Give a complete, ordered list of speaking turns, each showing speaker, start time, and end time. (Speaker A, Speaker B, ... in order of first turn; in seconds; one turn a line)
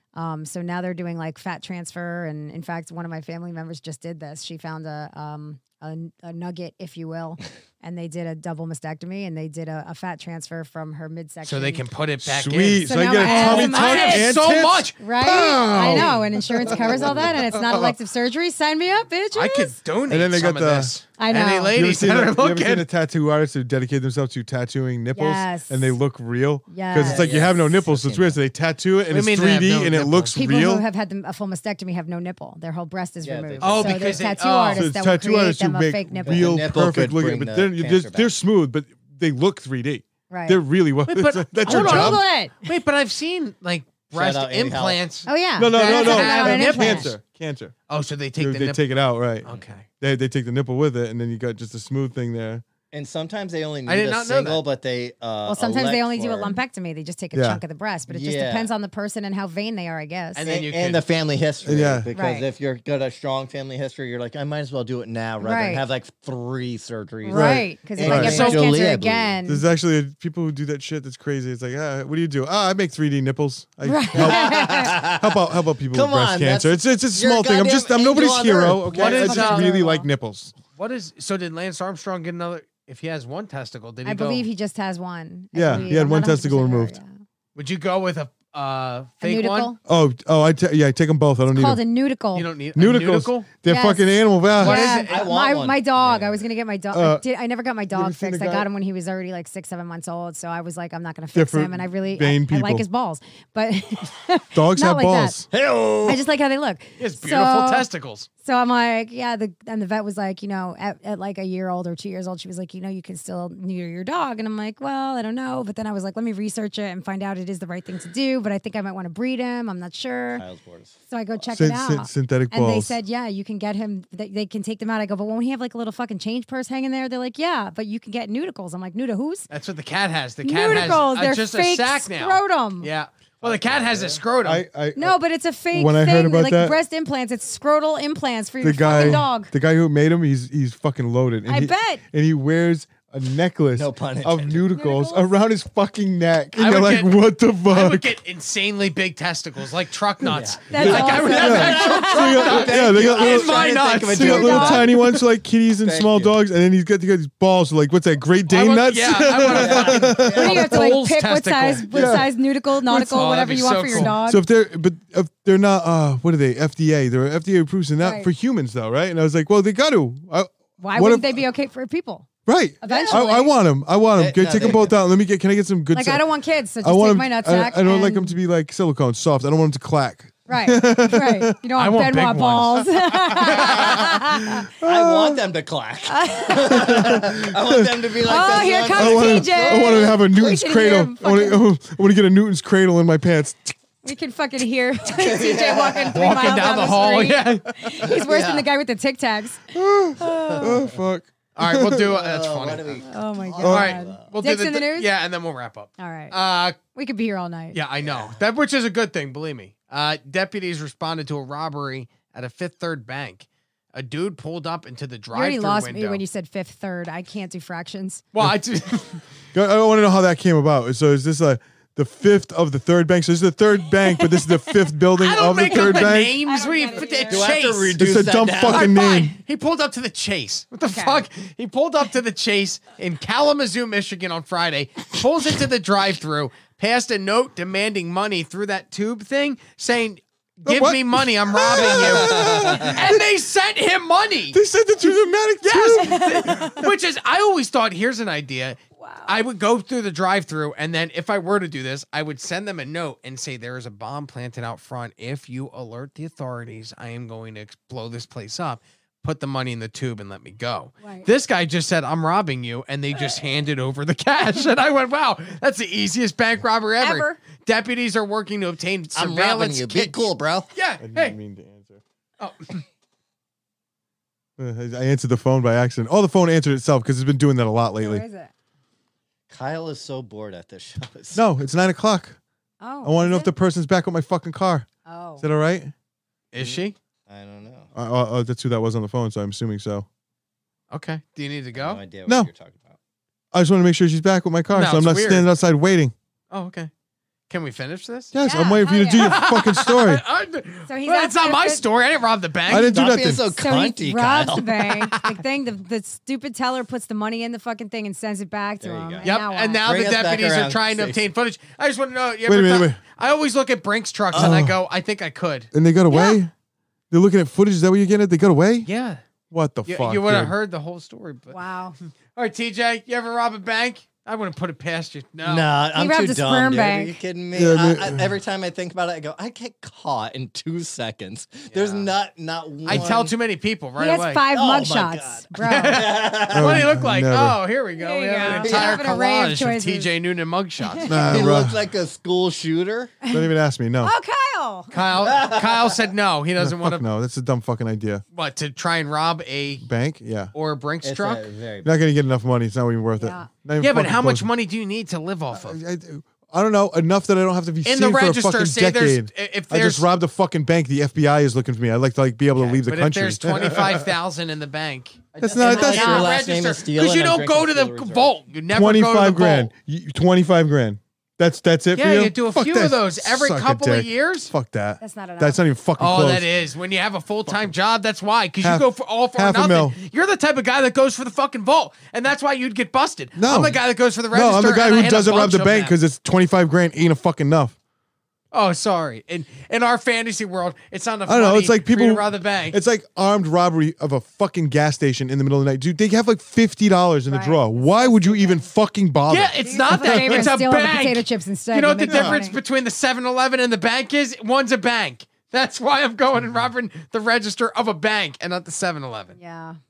Speaker A: 0.1-11.8
Speaker B: 11.4-15.0
Speaker C: 12.2-18.0
Speaker A: 12.8-14.3
Speaker A: 15.0-19.7
Speaker D: 16.8-17.5
Speaker B: 19.3-22.9
Speaker C: 20.1-20.9
Speaker A: 21.2-21.8
Speaker C: 21.7-30.9
Speaker A: 25.1-26.0
Speaker A: 26.7-27.3
Speaker D: 27.0-28.4
Speaker B: 29.1-30.4
Speaker A: 30.4-36.6
Speaker D: 33.2-34.3
Speaker B: 33.6-34.9
Speaker C: 34.7-42.2
Speaker D: 36.2-38.3
Speaker A: 40.3-40.6
Speaker B: 41.1-47.1
Speaker A: 41.6-42.7
Speaker D: 44.1-45.0
Speaker A: 45.2-47.1
Speaker C: 45.6-47.7
Speaker B: 47.9-48.8
Speaker C: 48.4-49.5
Speaker B: 49.4-49.9
Speaker C: 50.0-52.6
Speaker D: 52.9-56.6
Speaker B: 53.9-54.6
Speaker A: 55.5-60.4
Speaker C: 57.3-57.6
Speaker D: 58.1-58.7
Speaker B: 60.4-61.0
Speaker D: 60.4-69.3
Speaker C: 61.6-62.1
Speaker A: 62.1-62.5
Speaker A: 65.4-65.8
Speaker A: 67.2-69.6
Speaker C: 67.3-68.5
Speaker B: 68.2-68.7
Speaker C: 69.5-80.6
Speaker A: 73.8-75.0
Speaker D: 74.1-75.4
Speaker D: 75.9-79.2
Speaker B: 79.0-79.7
Speaker A: 79.0-80.1
Speaker B: 80.8-84.5
Speaker A: 84.0-87.1
Speaker C: 85.5-86.9
Speaker B: 87.5-89.7
Speaker A: 89.2-89.8
Speaker C: 89.9-91.8
Speaker A: 91.5-92.5
Speaker B: 92.3-93.5
Speaker C: 92.8-94.8
Speaker A: 93.6-105.4
Speaker B: 94.6-95.2
Speaker D: 94.6-96.4
Speaker C: 96.9-97.2
Speaker C: 97.9-98.7
Speaker C: 101.3-102.8
Speaker C: 104.5-105.4
Speaker D: 105.5-106.2
Speaker A: 106.0-107.9
Speaker B: 107.0-108.3
Speaker A: 108.4-120.4
Speaker D: 120.4-121.0
Speaker A: 121.1-129.5
Speaker C: 121.5-123.0
Speaker B: 129.5-134.6
Speaker A: 130.4-132.9
Speaker D: 133.4-134.2
Speaker C: 134.4-135.2
Speaker A: 135.0-139.5
Speaker C: 135.7-136.8
Speaker C: 138.6-148.1
Speaker B: 138.9-139.2
Speaker A: 141.5-142.0
Speaker D: 143.7-144.6
Speaker A: 144.7-145.3
Speaker B: 146.6-154.4
Speaker D: 150.2-155.0
Speaker A: 150.7-152.5
Speaker C: 150.8-160.8
Speaker A: 154.2-154.9
Speaker D: 155.8-156.3
Speaker B: 158.5-162.2
Speaker D: 159.4-160.7
Speaker A: 160.3-164.4
Speaker C: 161.9-162.3
Speaker B: 162.9-164.1
Speaker C: 163.9-171.4
Speaker A: 168.0-168.3
Speaker A: 170.8-172.3
Speaker C: 172.5-176.2
Speaker A: 172.8-173.5
Speaker D: 174.2-175.0
Speaker A: 175.9-178.4
Speaker C: 176.8-181.6
Speaker A: 180.5-184.7
Speaker B: 181.8-184.1
Speaker C: 184.4-185.4
Speaker D: 184.8-190.1
Speaker A: 186.1-187.0
Speaker C: 186.7-193.7
Speaker A: 188.2-191.6
Speaker A: 194.0-200.8
Speaker D: 195.1-196.9
Speaker B: 196.1-197.7
Speaker D: 198.0-198.7
Speaker C: 199.7-202.1
Speaker D: 200.2-200.9
Speaker B: 201.5-203.0
Speaker D: 201.9-204.3
Speaker A: 203.0-205.1
Speaker C: 203.6-203.9
Speaker B: 203.6-206.8
Speaker A: 206.0-206.4
Speaker A: 206.9-207.8
Speaker B: 207.7-216.2
Speaker D: 208.0-208.4
Speaker A: 215.3-218.2
Speaker B: 218.3-219.2
Speaker C: 219.5-226.4
Speaker B: 225.2-228.0
Speaker A: 225.5-227.6
Speaker D: 227.3-228.9
Speaker C: 228.0-229.4
Speaker B: 228.7-244.6
Speaker A: 230.9-231.2
Speaker C: 240.7-243.2
Speaker D: 241.6-243.0
Speaker C: 244.5-246.9
Speaker B: 245.6-271.4
Speaker A: 246.0-246.6
Speaker A: 249.0-249.4
Speaker A: 261.0-261.3
Speaker A: 267.0-267.4
Speaker D: 269.1-270.7
Speaker C: 271.0-272.0
Speaker B: 272.4-272.8
Speaker C: 274.6-278.2
Speaker A: 278.0-278.5
Speaker D: 279.5-281.4
Speaker C: 281.4-282.4
Speaker A: 282.8-283.5
Speaker C: 283.0-284.9
Speaker A: 285.1-285.5
Speaker C: 285.4-285.9
Speaker B: 286.5-287.0
Speaker D: 286.6-287.9
Speaker C: 287.9-290.1
Speaker B: 290.9-292.0
Speaker D: 291.7-293.0
Speaker C: 293.5-296.1
Speaker B: 294.7-295.5
Speaker B: 296.5-296.9
Speaker B: 297.5-298.3
Speaker C: 298.3-300.2
Speaker A: 298.4-299.4
Speaker B: 299.1-302.9
Speaker A: 300.9-301.8
Speaker C: 302.7-303.5
Speaker D: 302.7-304.8
Speaker A: 303.5-309.9
Speaker D: 308.8-309.2
Speaker B: 309.2-315.7
Speaker D: 309.9-311.2
Speaker C: 312.5-313.0
Speaker D: 314.3-314.6
Speaker C: 314.4-314.8
Speaker C: 315.7-316.5
Speaker A: 316.1-316.4
Speaker C: 317.1-318.9
Speaker B: 318.9-319.2
Speaker C: 319.5-320.5
Speaker B: 319.9-321.6
Speaker A: 321.5-322.0
Speaker B: 322.3-325.7
Speaker D: 325.4-333.3
Speaker A: 325.9-327.2
Speaker C: 327.5-328.3
Speaker B: 331.7-332.1
Speaker B: 332.9-334.4
Speaker A: 334.0-336.0
Speaker D: 334.5-336.9
Speaker B: 335.6-341.4
Speaker C: 336.5-337.6
Speaker A: 338.0-340.1
Speaker D: 338.4-339.1
Speaker A: 340.8-341.1
Speaker C: 341.1-341.8
Speaker D: 341.2-343.1
Speaker A: 343.2-343.5
Speaker C: 343.3-344.1
Speaker A: 344.0-344.9
Speaker B: 344.9-347.0
Speaker D: 345.1-346.0
Speaker C: 346.6-348.2
Speaker B: 348.3-349.8
Speaker C: 349.8-350.5
Speaker B: 350.5-351.4
Speaker D: 351.0-351.9
Speaker C: 351.8-354.5
Speaker A: 353.2-353.5
Speaker B: 353.8-355.8
Speaker C: 355.5-364.1
Speaker B: 357.8-360.1
Speaker B: 362.6-369.7
Speaker D: 365.4-368.4
Speaker C: 365.4-366.2
Speaker A: 365.6-366.3
Speaker C: 368.7-376.5
Speaker B: 371.9-374.5
Speaker A: 375.0-375.6
Speaker B: 376.0-385.9
Speaker C: 378.6-379.9
Speaker C: 383.4-387.8
Speaker B: 388.5-392.8
Speaker C: 391.3-400.5
Speaker A: 397.3-398.7
Speaker B: 399.3-409.4
Speaker A: 399.6-402.6
Speaker C: 402.1-402.4
Speaker A: 409.4-409.8